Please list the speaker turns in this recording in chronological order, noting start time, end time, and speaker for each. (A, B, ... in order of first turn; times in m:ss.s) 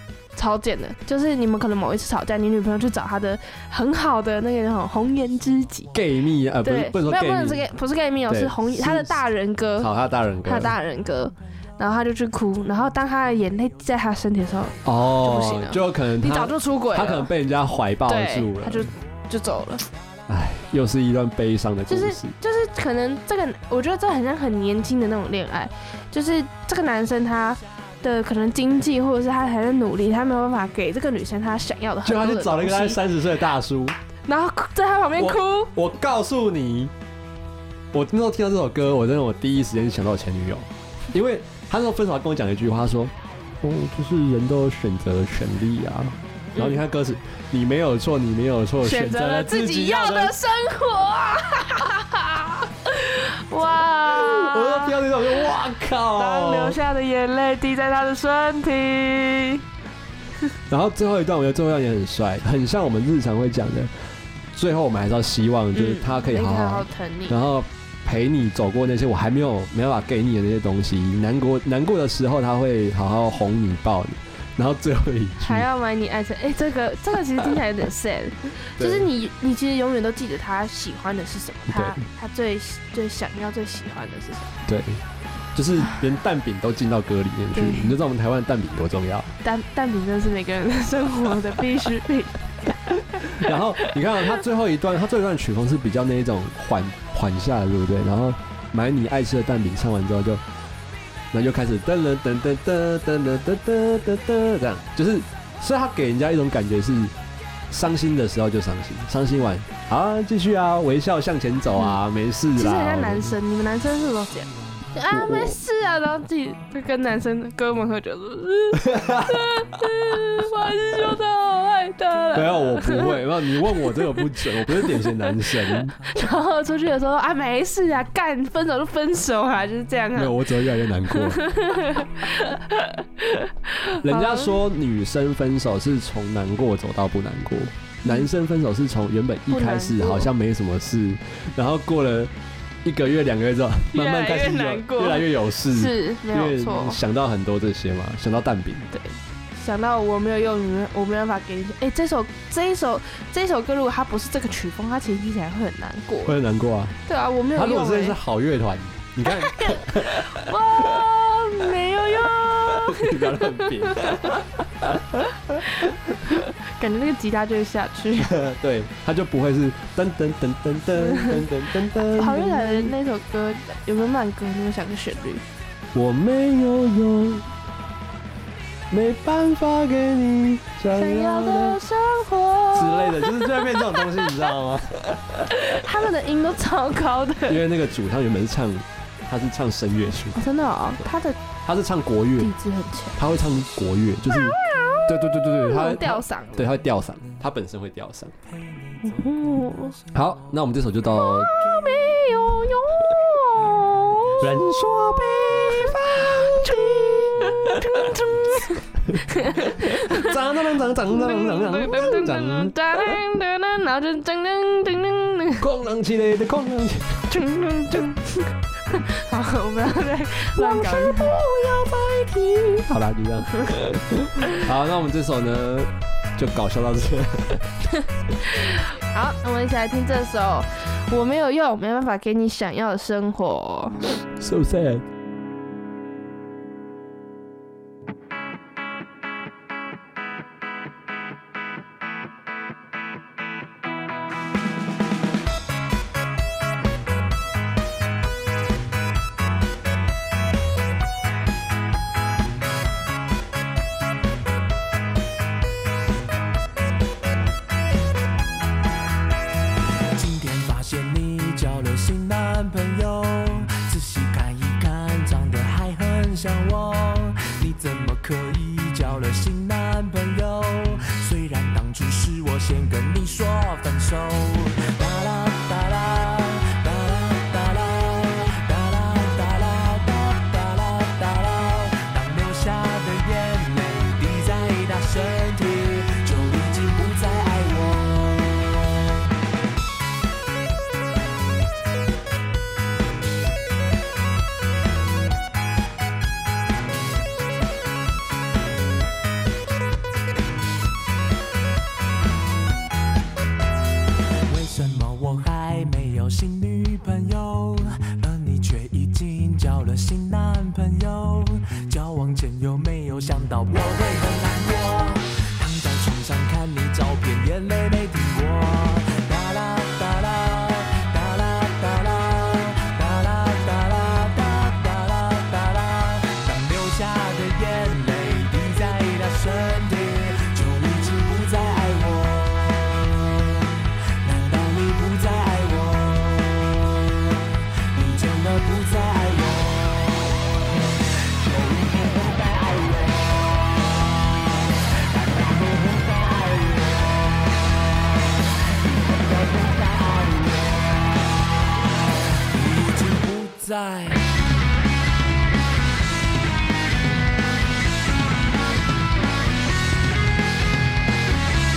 0:00.3-0:05.9 A
0:05.9-0:07.7 B
0:06.6-0:09.9 A
0:08.3-0:09.2 B
0:09.8-0:10.7 B
0:10.4-0:17.3 A
0:14.8-0:18.9 B
0:18.1-0:19.8 A
0:20.3-0:22.3 B
0:21.9-0:33.0 A
0:32.0-0:34.0 B
0:34.2-0:35.7 A
0:35.2-0:36.9 B
0:37.9-0:50.3 B
0:46.5-0:46.8 A
0:48.8-0:55.5 A
0:54.0-0:56.8 B
0:56.1-0:59.6 A
1:00.7-1:03.9 B
1:04.5-1:15.7 B
1:05.7-1:07.4 A
1:15.4-1:24.6 A
1:18.8-1:19.1 B
1:21.7-1:22.0 B
1:24.6-1:25.0 B
1:25.5-1:29.3 B
1:27.5-1:27.9 A
1:29.4-1:34.0 A
1:33.4-1:40.4 B
1:41.3-1:47.1 B
1:47.7-1:53.4 B
1:52.5-2:14.6 A
1:55.1-1:55.6 B
1:58.8-1:59.4 B
2:02.3-2:06.0 B
2:10.1-2:11.4 B
2:14.0-2:22.3 B
2:19.5-2:20.3 A
2:22.8-2:28.9 B
2:23.9-2:27.0 A
2:28.9-2:36.4 A
2:36.2-2:37.0 B
2:37.0-2:38.2 A
2:37.5-2:40.5 B
2:39.3-2:48.3 A
2:42.7-2:44.9 B
2:48.2-2:52.9 B
2:51.0-2:51.4 A
2:52.1-2:55.4 A
2:55.9-2:57.5 B
2:58.9-3:01.8 B
3:00.9-3:04.5 A
3:02.7-3:05.5 B
3:05.4-3:07.6 A
3:07.4-3:10.4 B
3:10.3-3:11.4 A
3:11.6-3:12.5 B
3:12.4-3:13.2 A
3:13.2-3:18.3 B
3:14.3-3:16.7 A
3:18.7-3:19.7 C
3:19.0-3:20.0 A
3:20.1-3:21.5 B
3:21.1-3:24.5 A
3:24.4-3:28.1 B
3:25.6-3:30.4 A
3:29.8-3:33.2 B
3:31.1-3:35.7 A
3:35.6-3:37.3 B
3:37.3-3:41.4 A
3:40.6-3:47.7 B
3:43.5-3:44.6 A
3:48.3-3:54.1 A
3:54.4-3:55.0 B
4:20.1-4:48.8 C
5:04.4-5:33.1 C
5:34.0-5:36.9 C
5:37.8-5:40.1 C
5:41.4-5:43.4 C
5:45.1-5:47.2 C
5:49.1-5:50.8 C
5:52.5-5:54.3 C